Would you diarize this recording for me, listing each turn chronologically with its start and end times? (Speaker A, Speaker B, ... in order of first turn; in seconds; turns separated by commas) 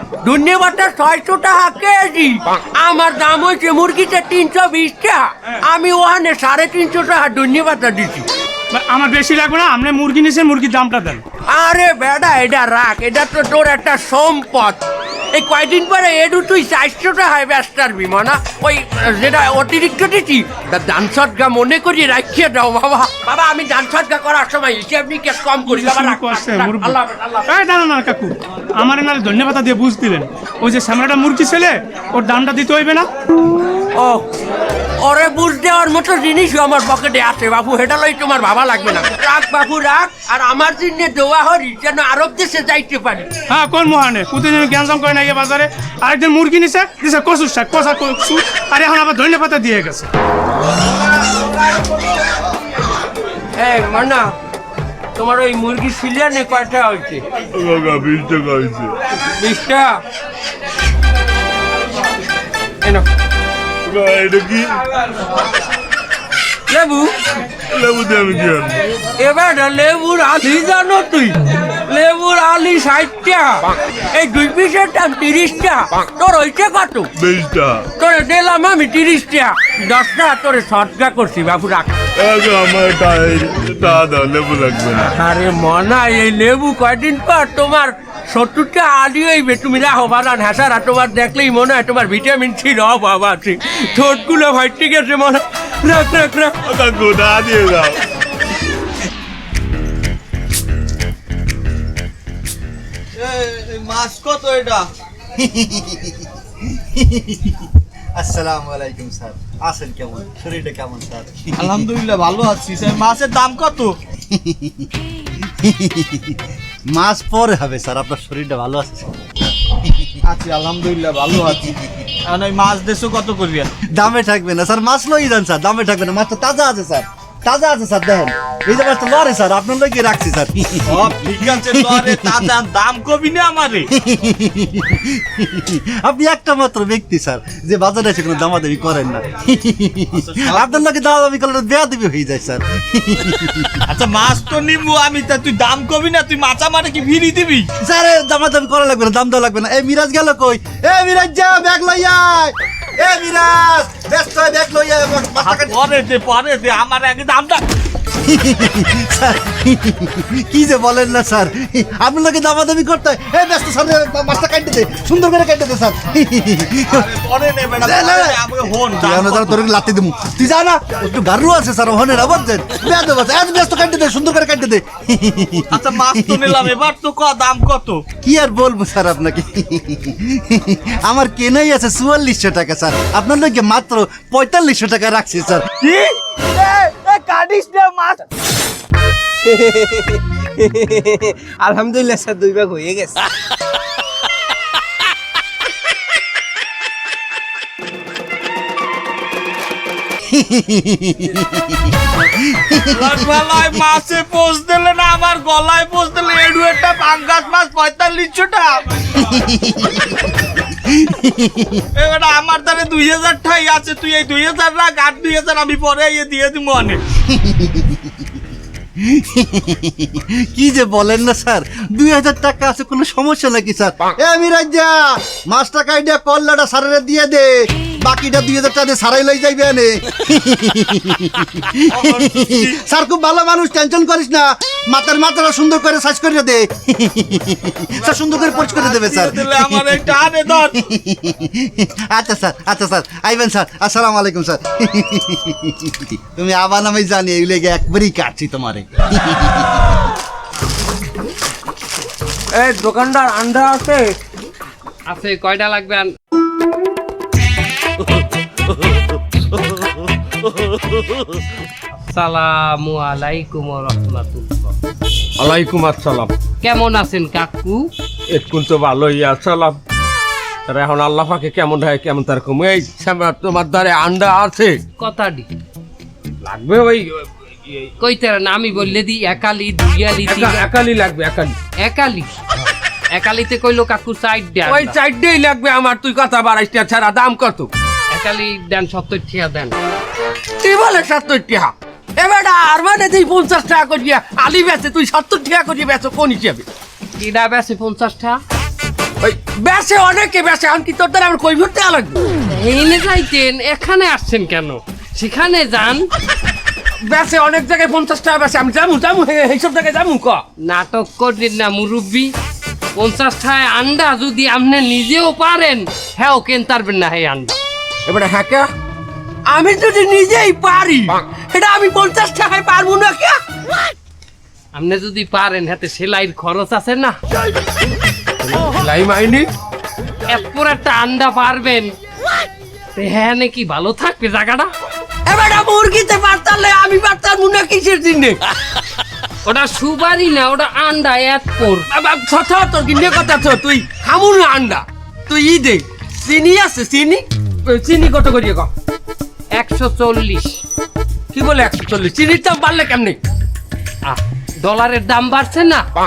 Speaker A: 0.2-8.2, Speaker B: 8.7-11.2, Speaker A: 11.5-14.8, Speaker A: 15.3-27.5, Speaker B: 25.7-27.0, Speaker B: 27.5-33.1, Speaker A: 33.9-34.3, Speaker A: 35.0-43.3, Speaker B: 43.5-50.1, Speaker A: 53.6-54.3, Speaker A: 55.2-57.2, Speaker C: 57.6-58.9, Speaker A: 59.4-59.9, Speaker C: 63.9-64.8, Speaker A: 66.7-67.1, Speaker C: 67.7-68.8, Speaker A: 69.2-73.6, Speaker A: 74.1-77.1, Speaker C: 77.2-77.8, Speaker A: 78.0-81.9, Speaker C: 82.2-85.1, Speaker A: 85.1-96.6, Speaker C: 96.6-98.0, Speaker D: 103.2-104.9, Speaker E: 105.4-106.2, Speaker E: 106.8-107.6, Speaker E: 108.2-111.9, Speaker D: 111.6-113.9, Speaker E: 114.3-114.9, Speaker E: 115.4-116.4, Speaker E: 116.9-119.1, Speaker E: 119.7-120.1, Speaker D: 120.2-121.7, Speaker D: 122.3-123.7, Speaker E: 123.9-132.5, Speaker D: 130.9-133.9, Speaker E: 133.9-143.8, Speaker D: 140.2-140.8, Speaker D: 143.9-147.7, Speaker E: 147.8-155.7, Speaker D: 155.4-157.6, Speaker E: 158.2-167.1, Speaker D: 166.9-169.6, Speaker E: 167.8-168.4, Speaker E: 168.9-176.7, Speaker D: 175.7-178.0, Speaker E: 178.2-185.6, Speaker D: 185.8-188.2, Speaker F: 189.4-193.2, Speaker E: 200.3-201.9, Speaker E: 202.5-203.6, Speaker D: 202.9-208.7, Speaker E: 209.2-210.1, Speaker E: 210.8-211.8, Speaker D: 212.0-217.0, Speaker E: 217.3-218.1, Speaker E: 219.0-240.1, Speaker D: 231.9-232.8, Speaker D: 238.0-240.7, Speaker E: 240.7-249.9, Speaker A: 252.6-254.0, Speaker G: 255.1-256.1, Speaker G: 262.1-264.7, Speaker A: 265.4-266.3, Speaker G: 266.6-267.9, Speaker A: 268.3-269.8, Speaker A: 270.7-274.8, Speaker G: 275.0-275.5, Speaker A: 276.4-277.2, Speaker G: 278.0-280.6, Speaker A: 280.2-281.5, Speaker G: 281.8-282.3, Speaker G: 283.1-284.9, Speaker A: 284.6-287.7, Speaker G: 288.1-289.7, Speaker A: 290.6-296.6, Speaker G: 297.2-298.4, Speaker A: 299.2-302.2, Speaker G: 302.5-306.1, Speaker A: 307.1-310.4, Speaker G: 310.6-312.3, Speaker G: 313.0-317.6, Speaker A: 318.1-318.7, Speaker A: 319.5-323.4, Speaker G: 324.7-327.1, Speaker A: 328.4-329.4, Speaker G: 330.3-331.9, Speaker G: 332.9-334.7, Speaker A: 335.3-338.4, Speaker G: 339.4-341.9, Speaker A: 341.9-348.7, Speaker G: 349.6-350.6, Speaker A: 351.3-353.2, Speaker G: 354.1-355.8